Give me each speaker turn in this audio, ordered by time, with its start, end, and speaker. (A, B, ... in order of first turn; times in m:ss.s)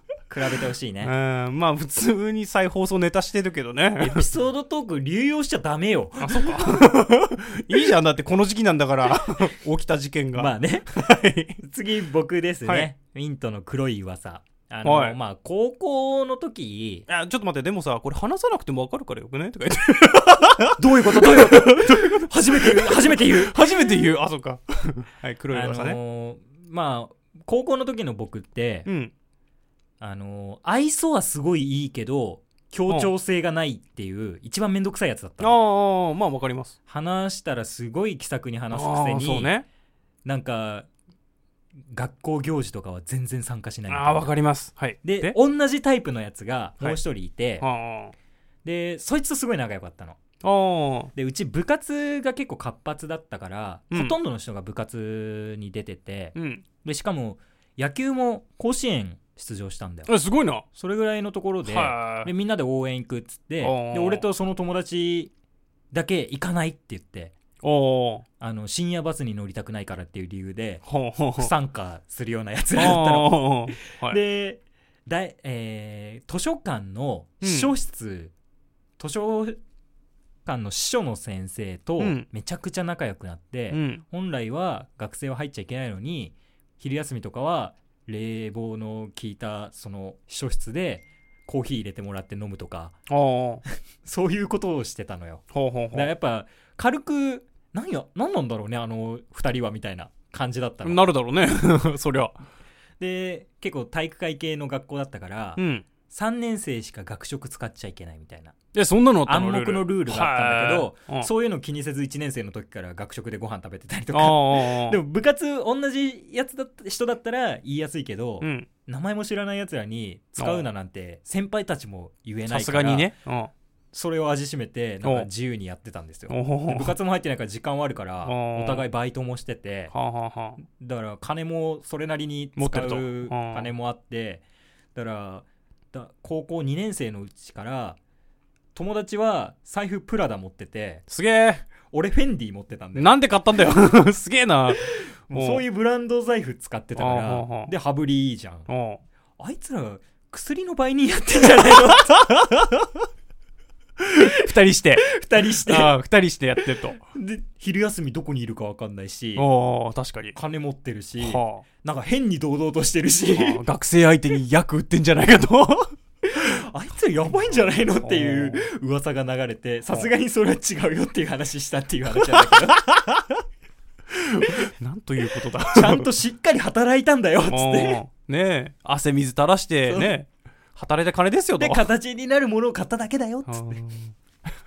0:00.3-0:01.1 A
0:01.0-0:04.2 B
0:04.0-0:06.8 A
0:06.2-0:11.6 B
0:10.3-0:10.9 A
0:11.6-0:17.0 A
0:14.8-0:15.2 B
0:17.1-0:26.0 B
0:20.8-0:23.8 A
0:25.5-0:28.9 A
0:28.8-0:29.1 B
0:30.0-0:35.6 A
0:35.4-0:36.7 B
0:36.9-0:39.5 A
0:38.7-0:39.6 B
0:40.2-0:40.9 A
0:41.9-0:44.3 A
0:43.9-0:45.4 B
0:45.0-0:47.7 A
0:47.6-0:48.1 B
0:48.6-0:50.2 A
0:50.4-0:51.1 B
0:51.1-1:00.1 A
0:56.3-0:56.6 B
1:00.1-1:00.6 B
1:00.7-1:05.3 A
1:01.6-1:02.3 B
1:03.6-1:04.2 B
1:05.9-1:07.4 A
1:07.6-1:08.2 B
1:08.4-1:10.8 A
1:10.8-1:11.5 B
1:11.3-1:18.3 A
1:12.8-1:14.2 B
1:17.4-1:17.7 B
1:19.0-1:19.6 A
1:20.4-1:33.0 A
1:22.0-1:22.3 B
1:23.7-1:24.0 B
1:33.1-1:33.6 B
1:34.0-1:41.0 A
1:35.5-1:36.1 B
1:40.8-1:42.4 B
1:43.0-1:48.6 A
1:45.6-1:45.8 B
1:48.7-1:51.3 B
1:49.2-2:03.1 A
1:54.1-1:55.0 B
1:58.4-1:58.7 B
2:00.4-2:00.7 B
2:02.5-2:03.5 B
2:03.9-2:09.9 A
2:05.0-2:05.3 B
2:06.3-2:06.9 B
2:08.2-2:08.9 B
2:09.9-2:10.6 B
2:10.6-2:14.4 A
2:12.6-2:13.7 B
2:14.9-2:18.0 A
2:18.7-2:21.0 A
2:21.1-2:21.6 B
2:21.9-2:23.1 A
2:22.9-2:25.6 B
2:24.7-2:28.7 A
2:27.0-2:27.7 B
2:28.7-2:29.0 B
2:29.4-2:32.2 A
2:31.8-2:33.0 B
2:34.0-2:37.0 B
2:35.0-2:36.0 A
2:37.1-2:39.5 A
2:39.4-2:40.4 B
2:40.3-2:43.6 A
2:41.2-2:41.6 B
2:43.3-2:45.9 B
2:46.2-2:52.9 A
2:48.0-2:48.6 B
2:52.2-2:53.4 B
2:54.1-2:56.1 B
2:55.6-2:58.0 A
2:57.5-3:01.8 B
2:59.9-3:00.1 A
3:01.6-3:03.8 A
3:03.5-3:04.1 B